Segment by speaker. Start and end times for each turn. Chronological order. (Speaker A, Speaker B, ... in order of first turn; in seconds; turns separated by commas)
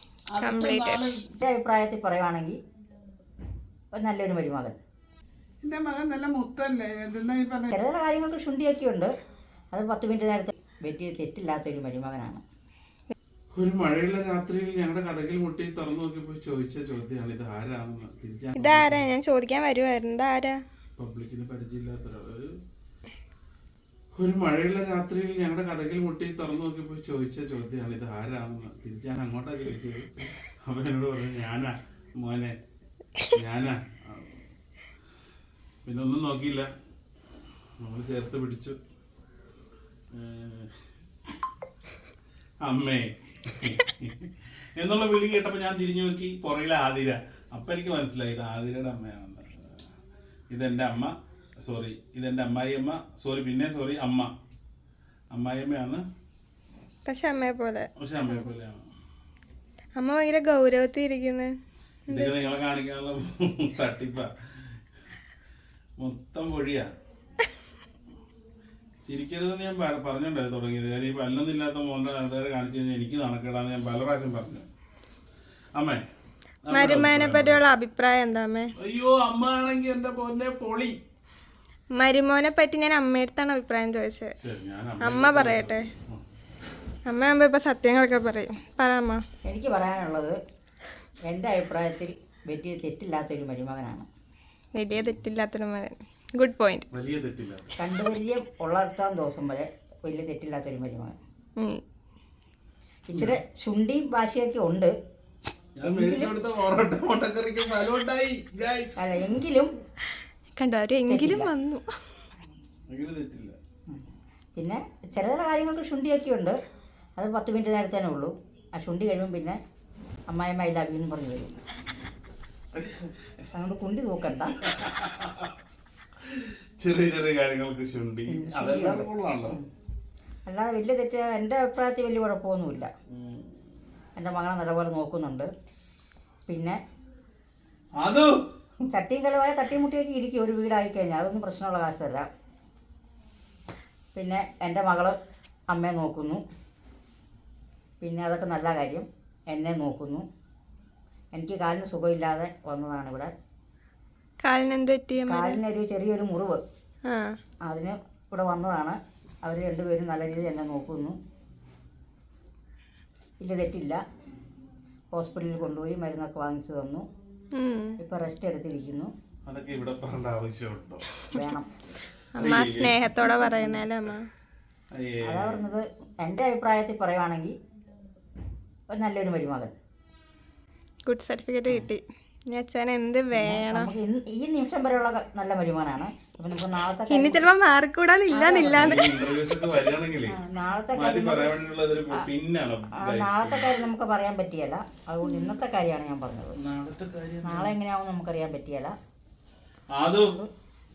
Speaker A: 0.3-1.4, Speaker B: 0.4-1.2, Speaker C: 1.4-2.6, Speaker C: 3.9-4.8, Speaker A: 5.6-7.8, Speaker C: 7.7-9.1, Speaker C: 9.7-12.4, Speaker D: 13.6-19.1, Speaker B: 18.6-20.6, Speaker D: 21.0-22.6, Speaker D: 24.2-32.6, Speaker D: 33.3-34.4, Speaker D: 35.9-36.7, Speaker D: 37.8-38.8, Speaker D: 40.1-40.7, Speaker D: 42.6-49.8, Speaker D: 50.5-54.3, Speaker D: 55.3-56.0, Speaker B: 57.0-57.9, Speaker D: 58.0-58.8, Speaker B: 60.0-61.5, Speaker D: 62.1-64.7, Speaker B: 62.1-62.4, Speaker D: 66.0-66.9, Speaker D: 69.0-74.7, Speaker D: 75.8-76.0, Speaker D: 76.7-77.6, Speaker B: 76.7-78.7, Speaker D: 78.8-81.0, Speaker B: 82.0-84.3, Speaker D: 84.4-86.2, Speaker B: 85.0-85.9, Speaker B: 87.1-89.2, Speaker C: 89.5-90.4, Speaker C: 91.3-94.1, Speaker B: 94.7-96.8, Speaker D: 96.9-97.8, Speaker C: 97.8-101.2, Speaker C: 103.1-104.9, Speaker D: 103.1-103.4, Speaker D: 105.8-109.0, Speaker C: 105.8-106.3, Speaker C: 109.0-109.7, Speaker B: 110.6-111.9, Speaker C: 111.1-111.5, Speaker D: 112.9-113.5, Speaker C: 114.5-116.6, Speaker C: 117.2-119.6, Speaker C: 120.3-121.6, Speaker D: 122.8-123.1, Speaker C: 123.5-124.6, Speaker D: 124.6-125.5, Speaker D: 126.3-129.6, Speaker C: 128.3-129.7, Speaker C: 130.5-132.9, Speaker D: 133.1-133.5, Speaker C: 134.2-135.5, Speaker C: 136.5-136.8, Speaker D: 138.0-138.4, Speaker C: 138.9-142.3, Speaker C: 144.1-145.2, Speaker C: 145.7-146.4, Speaker C: 148.0-150.3, Speaker C: 151.3-153.3, Speaker B: 154.4-155.6, Speaker C: 155.3-156.6, Speaker B: 157.1-157.4, Speaker C: 157.7-161.2, Speaker C: 163.4-164.0, Speaker C: 165.1-167.1, Speaker B: 167.5-168.0, Speaker C: 168.0-169.1, Speaker D: 169.5-171.1, Speaker C: 171.3-171.7, Speaker B: 172.3-174.3, Speaker D: 172.4-173.0, Speaker D: 174.9-175.6, Speaker C: 175.2-177.6, Speaker C: 178.9-179.7, Speaker B: 181.1-183.9, Speaker C: 183.3-187.5, Speaker B: 187.1-189.2, Speaker C: 188.3-189.1, Speaker D: 188.7-190.4, Speaker C: 190.3-191.5, Speaker D: 190.9-193.8, Speaker C: 192.9-196.6, Speaker D: 196.6-197.7, Speaker C: 197.4-198.9, Speaker D: 199.9-200.4, Speaker C: 200.1-200.5